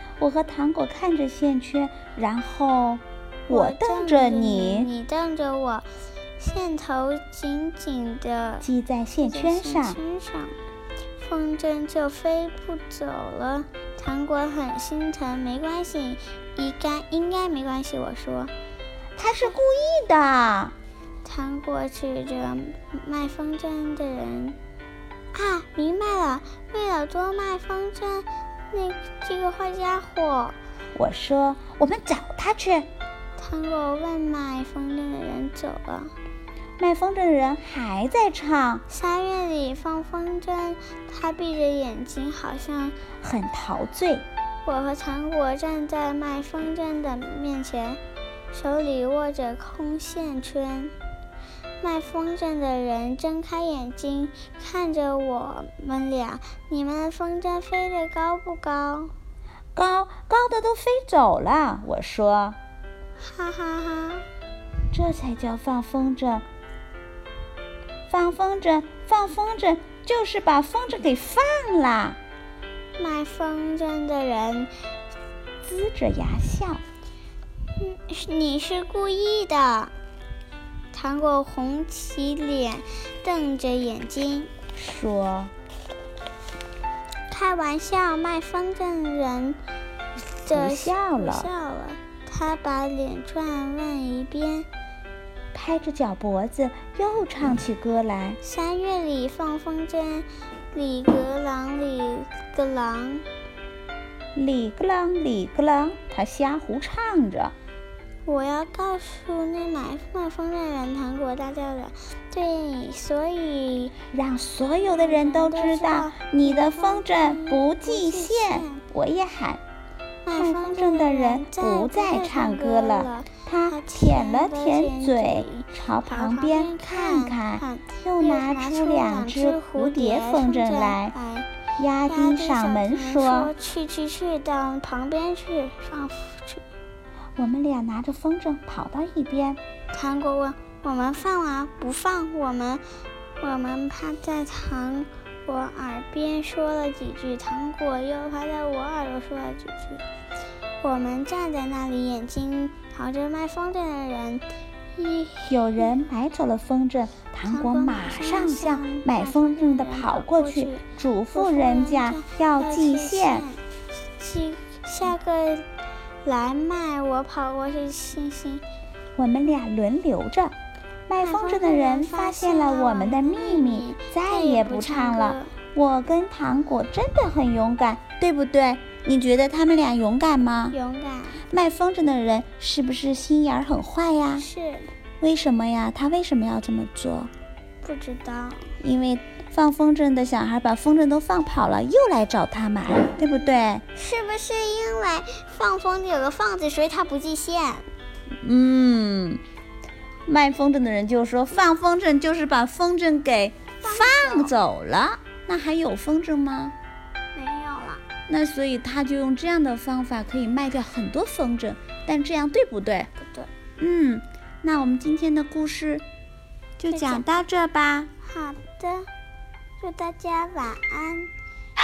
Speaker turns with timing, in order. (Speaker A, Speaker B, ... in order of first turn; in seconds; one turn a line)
Speaker A: 0.2-4.9
Speaker B: 3.5-5.9
Speaker B: 6.4-8.7
Speaker A: 8.6-10.0
Speaker B: 9.2-10.6
Speaker B: 11.2-18.5
Speaker A: 19.1-20.7
Speaker B: 21.2-24.6
Speaker B: 25.3-30.6
Speaker A: 30.9-32.9
Speaker B: 33.4-36.1
Speaker A: 36.8-38.8
Speaker B: 38.9-43.0
Speaker A: 43.2-44.3
Speaker B: 44.6-48.0
Speaker B: 48.5-50.9
Speaker B: 51.8-59.1
Speaker A: 59.7-62.6
Speaker B: 63.2-64.2
Speaker A: 64.9-66.4
Speaker A: 68.1-72.2
Speaker B: 73.0-74.7
Speaker A: 75.6-76.8
Speaker B: 77.8-79.9
Speaker B: 80.9-84.5
Speaker A: 84.7-85.5
Speaker B: 87.3-89.6
Speaker B: 90.4-94.7
Speaker A: 90.5-91.5
Speaker A: 95.5-98.4
Speaker B: 98.4-103.2
Speaker A: 104.3-107.5
Speaker B: 108.2-113.9
Speaker A: 114.1-119.6
Speaker B: 114.8-118.8
Speaker B: 120.2-131.5
Speaker A: 120.3-131.1
Speaker A: 131.8-133.5
Speaker B: 132.1-136.6
Speaker A: 137.4-139.6
Speaker B: 139.9-142.8
Speaker B: 143.4-150.0
Speaker B: 150.8-154.4
Speaker B: 154.9-155.8
Speaker A: 155.5-163.4
Speaker B: 157.4-163.6
Speaker B: 164.2-165.7
Speaker B: 166.2-168.6
Speaker A: 169.2-170.5
Speaker A: 171.1-180.8
Speaker B: 171.2-175.5
Speaker B: 180.7-181.4
Speaker A: 181.5-184.4
Speaker B: 184.4-184.9
Speaker A: 185.2-187.3
Speaker B: 187.8-188.7
Speaker A: 188.8-193.8
Speaker B: 193.9-197.8
Speaker A: 198.4-199.4
Speaker A: 200.2-206.7
Speaker B: 203.8-204.5
Speaker B: 207.3-208.0
Speaker A: 208.3-213.1
Speaker B: 213.2-213.5
Speaker A: 213.8-216.0
Speaker A: 216.8-218.1
Speaker B: 216.9-217.4
Speaker B: 218.2-219.1
Speaker B: 219.8-221.3